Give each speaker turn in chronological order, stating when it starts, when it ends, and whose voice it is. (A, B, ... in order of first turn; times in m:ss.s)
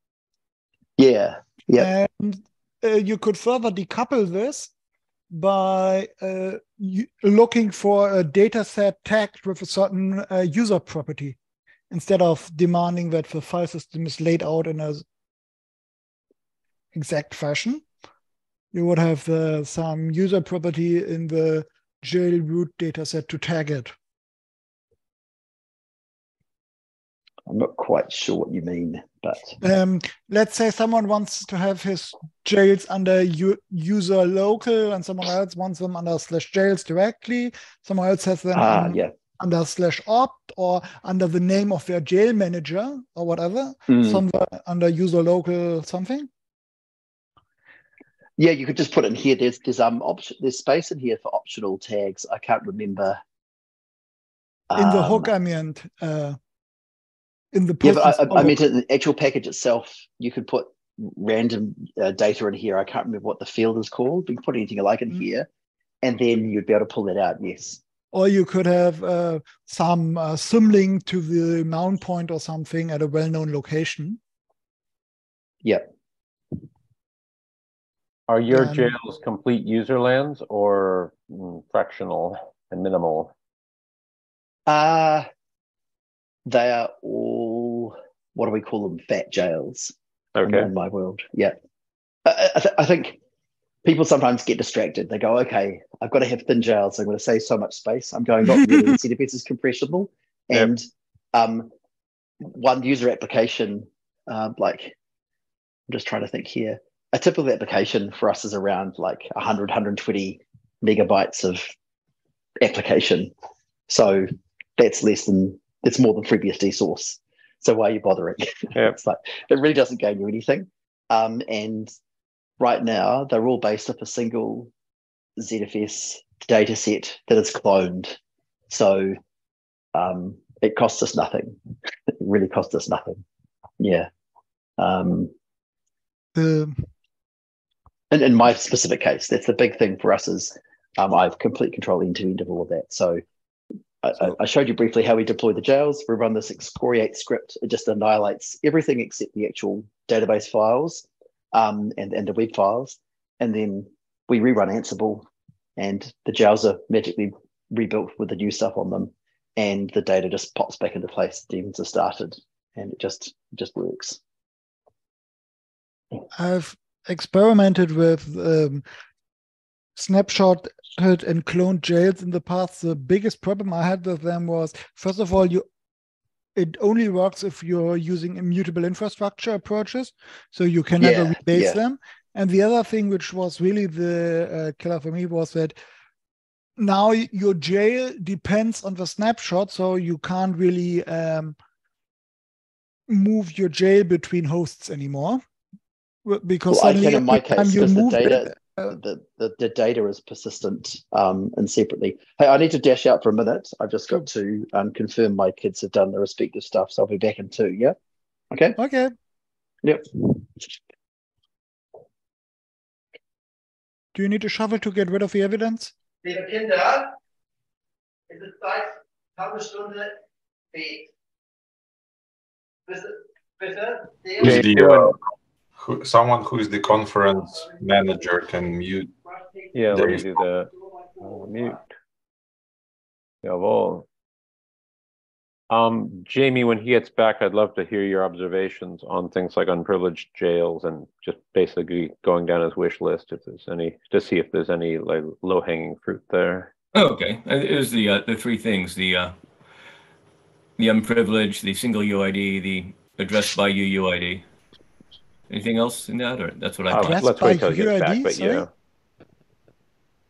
0:01.0-0:01.9 A
0:01.8-0:04.7 B
0:05.3-0:11.4 B
0:11.9-0:15.0 B
0:16.9-0:17.8 B
0:18.7-0:23.9 B
0:27.5-0:29.6 A
0:29.6-0:46.3 B
0:38.5-0:39.1 A
0:43.9-0:44.2 A
0:48.4-0:53.2 A
0:54.7-0:55.3 A
0:54.8-0:56.4 B
0:57.5-0:58.6 B
0:57.8-1:05.5 A
1:06.0-1:07.8 A
1:08.1-1:14.2 B
1:18.3-1:23.3 C
1:18.5-1:18.9 B
1:24.7-1:25.3 A
1:26.5-1:31.5 A
1:30.3-1:30.7 C
1:32.2-1:33.2 A
1:33.8-1:41.7 A
1:38.6-1:38.9 B
1:42.4-1:45.0 A
1:45.9-1:51.7 A
1:52.6-1:53.3 A
1:53.9-2:01.9 A
2:02.6-2:04.7 A
2:05.4-2:08.2 A
2:08.7-2:09.2 A
2:09.9-2:11.6 A
2:12.2-2:13.2 A
2:13.8-2:14.1 A
2:14.8-2:15.3 A
2:16.3-2:16.9 B
2:18.1-2:23.2 A
2:24.0-2:44.2 A
2:46.3-2:48.8 B
2:50.0-2:55.6 B
2:56.5-3:05.7 B
3:01.0-3:01.8 A
3:06.8-3:11.6 B
3:13.1-3:15.4 B
3:16.2-3:18.9 B
3:16.7-3:28.0 A
3:28.5-3:28.8 A
3:28.8-3:29.1 B
3:29.8-3:30.4 A
3:34.1-3:35.9 B
3:36.2-3:37.1 A
3:38.3-3:40.2 A
3:40.7-3:41.1 A
3:42.9-3:44.6 A
3:44.4-3:45.2 D
3:44.4-3:45.1 C
3:45.8-3:49.2 D
3:49.7-3:51.8 C
3:49.9-3:50.2 D
3:53.4-3:54.1 C
3:55.7-4:06.7 C
4:06.9-4:09.4 E
4:10.8-4:14.4 E
4:15.5-4:17.2 E
4:16.9-4:18.7 C
4:17.0-4:18.7 B